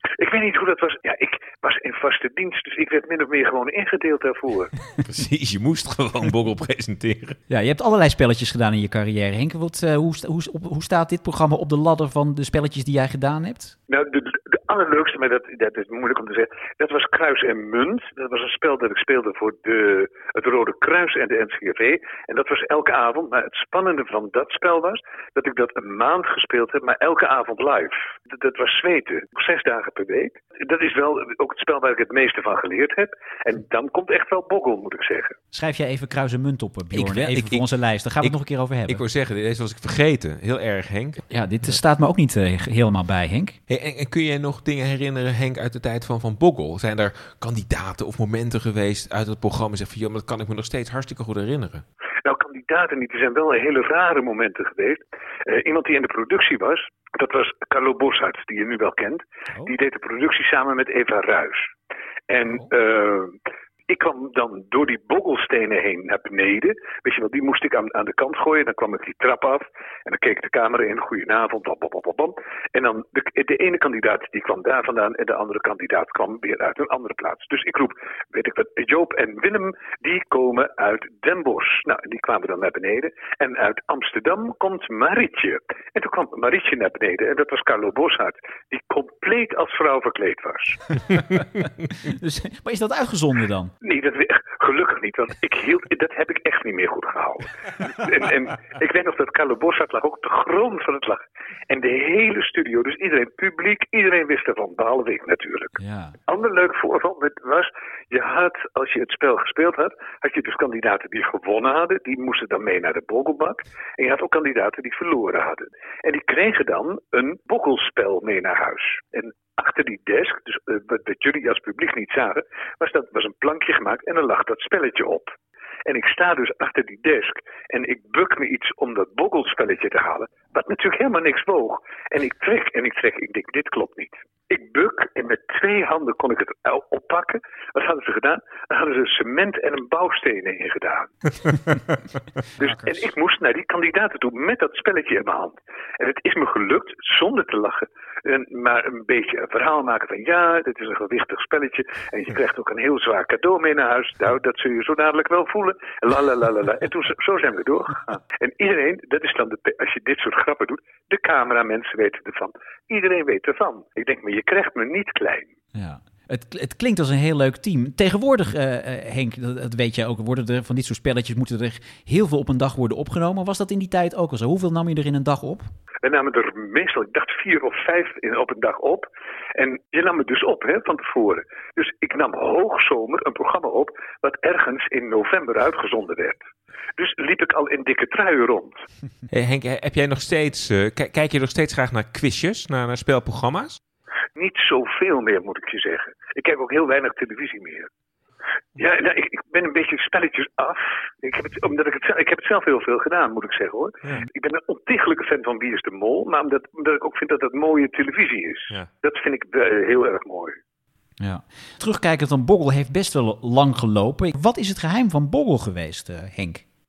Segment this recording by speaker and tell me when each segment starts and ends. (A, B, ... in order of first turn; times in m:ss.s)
0:00.2-0:04.7 A
0:05.0-0:07.4 B
0:07.5-0:13.8 C
0:13.9-0:35.4 A
0:35.5-0:39.0 C
0:36.9-0:37.7 B
0:38.9-0:41.2 B
0:41.3-0:43.6 C
0:43.7-0:51.8 B
0:52.2-1:01.7 A
1:02.3-1:03.4 A
1:03.9-1:30.8 A
1:31.2-1:31.4 C
1:32.0-1:33.7 C
1:33.8-1:45.8 A
1:45.8-1:46.2 C
1:46.3-2:05.3 A
2:05.9-2:21.1 A
2:22.6-2:45.5 A
2:22.6-2:22.9 C
2:45.7-2:55.7 C
2:56.0-3:06.4 A
3:07.0-3:08.8 A
3:09.3-3:13.8 B
3:14.4-3:17.9 A
3:18.8-3:30.6 A
3:31.2-3:36.6 C